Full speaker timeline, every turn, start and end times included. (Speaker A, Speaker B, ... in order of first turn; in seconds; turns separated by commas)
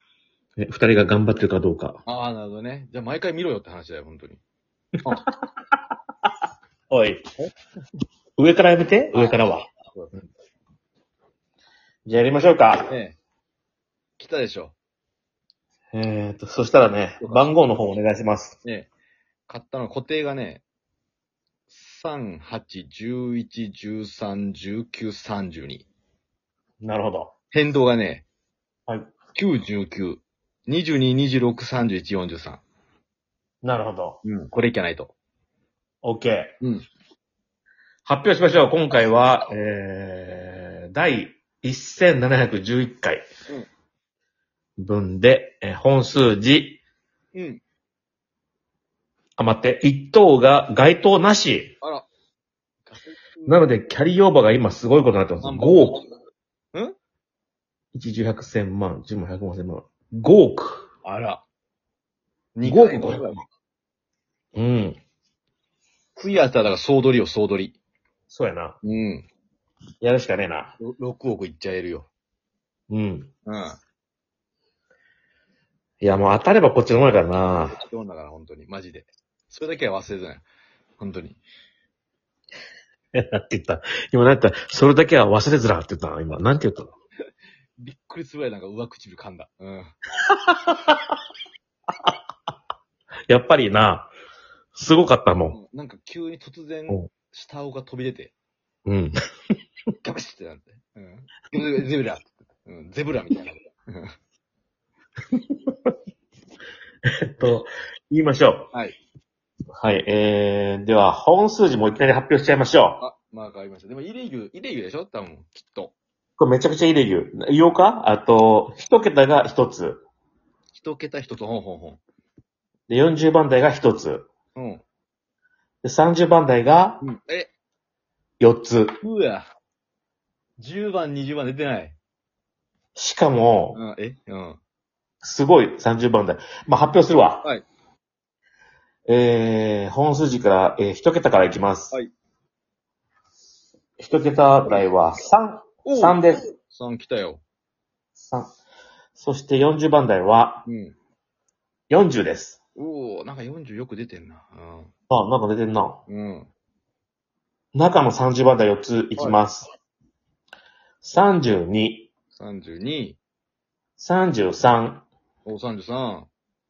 Speaker A: 0.6-2.0, Speaker B: 2.0-4.4, Speaker A: 6.9-7.2, Speaker A: 8.4-9.7, Speaker B: 9.1-10.2, Speaker A: 12.1-12.9, Speaker B: 12.9-13.2, Speaker B: 14.2-14.7, Speaker A: 15.9-18.6, Speaker B: 17.2-17.6, Speaker B: 18.6-18.9, Speaker B: 19.5-20.6, Speaker B: 21.7-25.9, Speaker A: 26.8-27.3, Speaker B: 27.5-28.2, Speaker B: 29.3-32.6, Speaker A: 33.6-34.2, Speaker B: 34.2-35.1, Speaker A: 36.0-36.6, Speaker A: 38.0-43.2, Speaker A: 44.8-46.8, Speaker B: 47.3-47.6, Speaker A: 49.4-51.8, Speaker B: 51.8-52.1, Speaker B: 52.9-53.8, Speaker A: 53.5-56.0, Speaker B: 55.4-56.1, Speaker A: 57.9-60.9, Speaker B: 61.0-61.4, Speaker B: 62.5-63.4, Speaker A: 62.6-63.4, Speaker A: 64.5-65.0, Speaker B: 66.2-67.8, Speaker A: 68.3-68.8, Speaker B: 68.8-69.3, Speaker A: 70.0-70.7, Speaker B: 70.8-72.1, Speaker A: 72.9-73.3, Speaker B: 73.5-73.8, Speaker A: 76.0-77.8, Speaker B: 77.7-80.4, Speaker B: 81.0-81.4, Speaker A: 83.1-86.9, Speaker B: 87.8-90.0, Speaker A: 90.2-91.2, Speaker A: 93.3-94.1, Speaker A: 94.7-95.6, Speaker B: 95.5-98.3, Speaker A: 98.8-99.1, Speaker B: 100.0-104.1, Speaker A: 107.2-108.7, Speaker A: 109.8-113.0, Speaker B: 113.0-115.9, Speaker A: 116.4-120.0, Speaker B: 120.7-122.0, Speaker A: 122.9-124.3, Speaker B: 124.5-124.8, Speaker A: 125.8-127.0, Speaker B: 127.0-127.5, Speaker A: 128.4-129.0, Speaker B: 129.0-129.5, Speaker B: 130.6-132.0, Speaker A: 132.9-133.8, Speaker B: 133.7-134.6, Speaker A: 135.2-137.5, Speaker A: 139.1-142.0, Speaker A: 144.0-146.4, Speaker B: 145.8-147.4, Speaker A: 148.2-148.5, Speaker A: 149.1-150.7, Speaker B: 150.7-150.9, Speaker A: 151.9-152.6, Speaker B: 152.8-154.9, Speaker A: 155.1-156.0, Speaker B: 156.1-156.5, Speaker A: 157.7-159.7, Speaker A: 161.0-162.1, Speaker B: 162.3-163.2, Speaker A: 164.0-165.1, Speaker B: 165.4-166.3